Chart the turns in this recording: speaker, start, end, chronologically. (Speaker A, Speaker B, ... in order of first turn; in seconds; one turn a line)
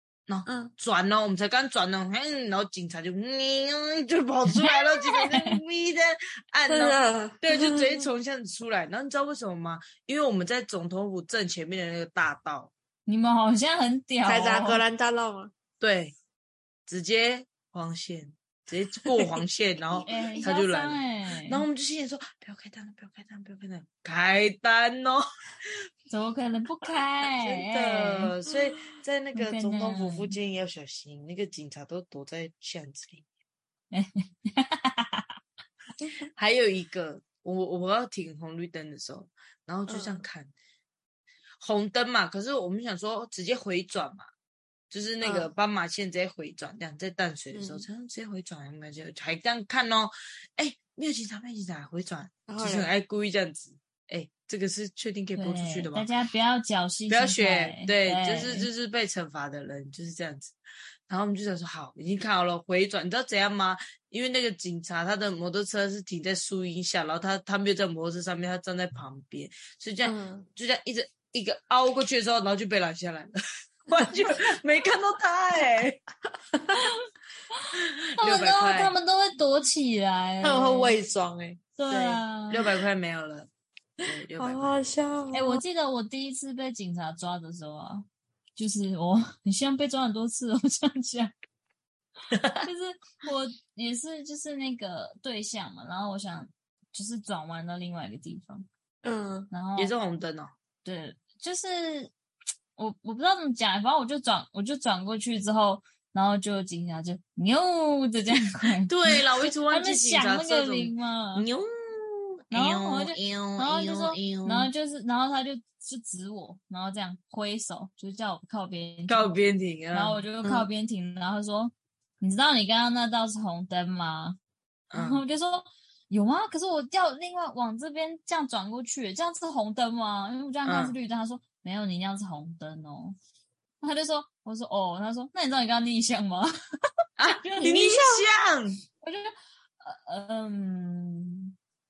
Speaker A: 0.3-12.7
Speaker B: 0.5-0.7
Speaker C: 4.6-5.6
Speaker B: 6.7-8.1
Speaker C: 13.1-14.8
Speaker B: 14.2-15.5
Speaker A: 15.8-16.1
Speaker A: 16.9-25.7
Speaker B: 20.0-20.5
Speaker C: 20.0-21.6
Speaker C: 26.1-28.3
Speaker A: 27.3-33.2
Speaker C: 29.3-30.4
Speaker C: 33.9-35.3
Speaker A: 36.4-40.5
Speaker B: 39.9-40.2
Speaker A: 41.6-44.3
Speaker A: 44.9-56.1
Speaker B: 45.2-45.5
Speaker B: 47.5-47.9
Speaker B: 52.5-52.9
Speaker C: 55.4-58.7
Speaker A: 57.1-73.3
Speaker B: 70.0-70.5
Speaker A: 73.8-76.0
Speaker B: 76.5-76.8
Speaker C: 76.8-77.0
Speaker A: 77.7-78.9
Speaker C: 78.2-81.0
Speaker B: 80.4-81.6
Speaker C: 81.8-82.7
Speaker A: 81.9-83.5
Speaker A: 84.0-84.7
Speaker B: 84.4-85.6
Speaker C: 85.3-91.3
Speaker A: 92.3-92.7
Speaker C: 92.6-98.7
Speaker B: 99.0-99.5
Speaker C: 99.5-99.9
Speaker A: 99.8-100.5
Speaker C: 100.8-102.1
Speaker C: 102.8-111.5
Speaker A: 108.9-114.7
Speaker C: 112.5-119.3
Speaker A: 119.1-120.3
Speaker C: 119.9-124.4
Speaker A: 124.9-125.2
Speaker C: 124.9-133.2
Speaker A: 130.6-131.0
Speaker C: 133.8-136.5
Speaker A: 137.2-138.8
Speaker C: 137.3-138.2
Speaker C: 139.0-141.5